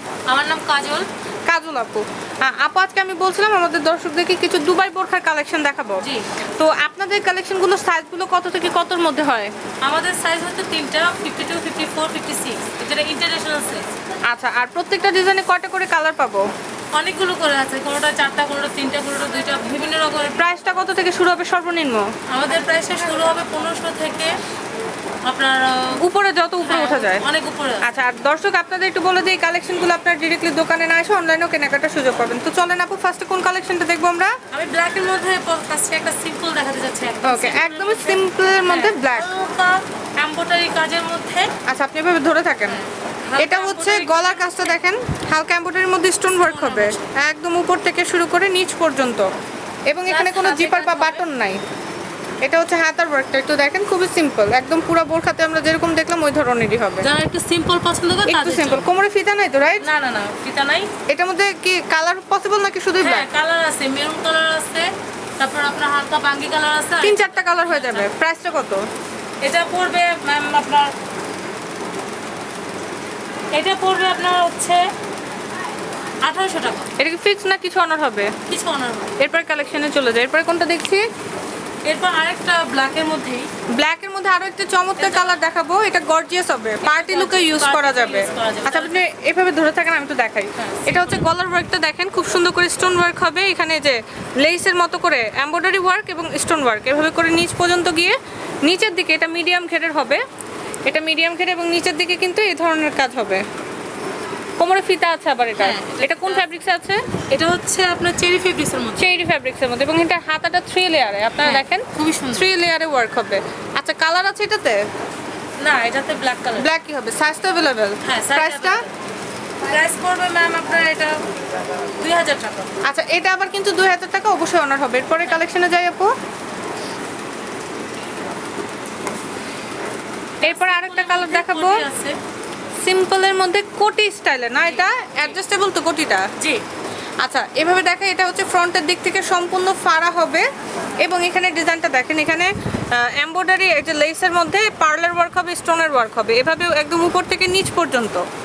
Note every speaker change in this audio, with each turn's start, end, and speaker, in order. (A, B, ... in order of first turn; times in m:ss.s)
0:00.3-0:01.1 A
0:01.5-0:09.5 B
0:06.0-0:06.3 A
0:09.8-0:13.9 A
0:14.3-0:16.4 B
0:16.9-0:20.5 A
0:20.4-0:22.1 B
0:22.3-0:24.4 A
0:25.2-0:26.0 A
0:26.0-0:27.2 B
0:26.6-0:27.9 A
0:27.8-0:34.3 B
0:34.5-0:41.5 A
0:37.2-0:39.3 B
0:41.7-0:42.8 B
0:42.7-0:44.8 A
0:43.4-0:49.3 B
0:46.4-0:47.1 A
0:49.9-0:51.6 B
0:50.1-0:51.2 A
0:52.4-0:57.0 B
0:57.0-0:58.9 A
0:58.3-0:59.8 B
0:59.8-1:00.9 A
1:01.1-1:03.2 B
1:03.0-1:08.1 A
1:07.0-1:08.8 B
1:09.4-1:10.9 A
1:13.5-1:14.9 A
1:16.2-1:16.9 A
1:17.0-1:18.3 B
1:18.5-1:19.1 A
1:19.2-1:21.0 B
1:21.8-1:23.5 A
1:23.7-1:40.2 B
1:25.0-1:25.4 A
1:26.8-1:29.0 A
1:30.6-1:31.3 A
1:40.9-1:43.4 B
1:44.6-1:47.0 B
1:45.6-1:46.4 A
1:47.3-1:49.1 A
1:49.0-1:54.8 B
1:51.4-1:52.5 A
1:55.6-1:56.7 A
1:56.6-1:58.8 B
1:58.0-1:58.9 A
1:59.6-2:01.2 A
2:02.0-2:02.7 A
2:02.8-2:06.1 B
2:10.4-2:11.8 B
2:10.4-2:12.2 A
2:12.8-2:16.3 B
2:14.6-2:14.9 A
2:16.4-2:16.6 A
2:17.2-2:20.4 B
2:21.0-2:28.2 B